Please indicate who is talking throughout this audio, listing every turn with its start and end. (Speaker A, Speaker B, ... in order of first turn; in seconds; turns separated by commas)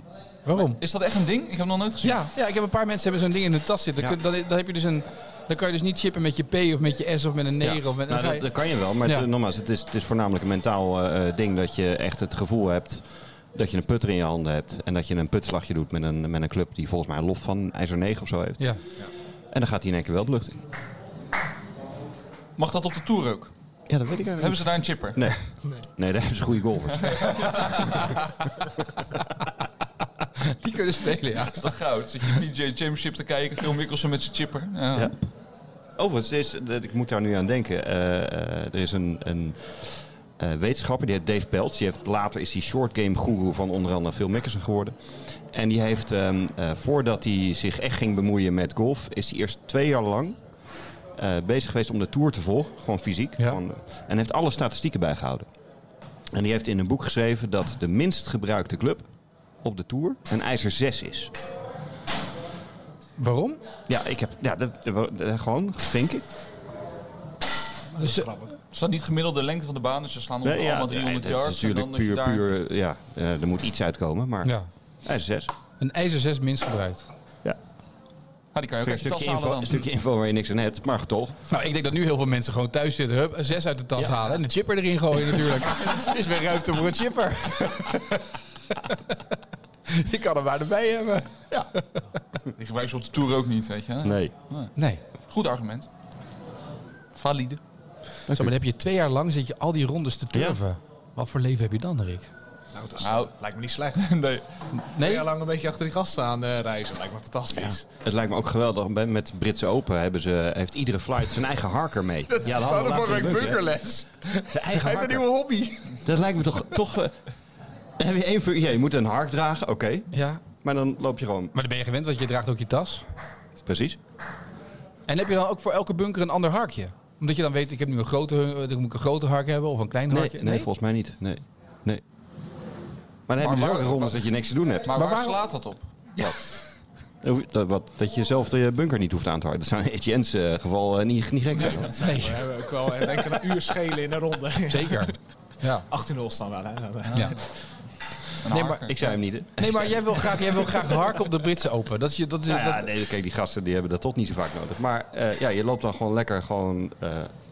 Speaker A: 0.5-0.8, Speaker B: 0.5-2.2, Speaker A: 2.0-8.5, Speaker C: 7.6-13.0, Speaker C: 13.5-18.7, Speaker C: 19.5-20.6, Speaker B: 22.6-23.5, Speaker C: 23.9-27.9, Speaker B: 24.4-25.2, Speaker B: 27.0-28.0, Speaker A: 30.4-31.7, Speaker B: 31.4-35.1, Speaker C: 36.0-44.9, Speaker C: 45.5-50.4, Speaker C: 51.1-55.5, Speaker C: 56.3-59.1, Speaker C: 59.6-61.3, Speaker A: 63.2-63.6, Speaker C: 63.9-66.2, Speaker D: 67.9-68.5, Speaker A: 68.0-68.3, Speaker B: 68.7-72.4, Speaker C: 70.4-75.5, Speaker A: 75.8-77.1, Speaker B: 78.5-79.8, Speaker C: 78.8-81.3, Speaker A: 81.5-88.2, Speaker C: 84.0-84.4, Speaker A: 88.8-89.2, Speaker A: 89.9-91.8, Speaker B: 92.6-94.7, Speaker C: 94.0-94.3, Speaker A: 94.8-95.0, Speaker B: 95.3-95.9, Speaker B: 97.1-97.6, Speaker C: 98.3-98.5, Speaker A: 98.3-102.3, Speaker C: 100.3-100.6, Speaker D: 102.7-104.0, Speaker B: 103.0-103.3, Speaker B: 103.9-104.4, Speaker A: 104.7-105.3, Speaker D: 105.0-107.8, Speaker C: 107.5-113.8, Speaker A: 112.3-116.0, Speaker C: 114.4-115.2, Speaker C: 116.0-117.2, Speaker C: 118.0-121.5, Speaker A: 120.1-120.4, Speaker A: 121.5-123.0, Speaker C: 123.6-124.0, Speaker A: 125.1-130.7, Speaker C: 130.1-132.0, Speaker C: 133.3-135.0, Speaker B: 133.4-134.2, Speaker B: 134.8-135.9, Speaker A: 134.9-135.4, Speaker C: 137.2-142.2, Speaker D: 141.6-145.2, Speaker A: 142.0-142.4, Speaker A: 144.7-145.8, Speaker D: 145.9-147.4, Speaker B: 148.4-149.0, Speaker A: 148.5-152.9, Speaker C: 148.8-150.8, Speaker C: 152.5-157.3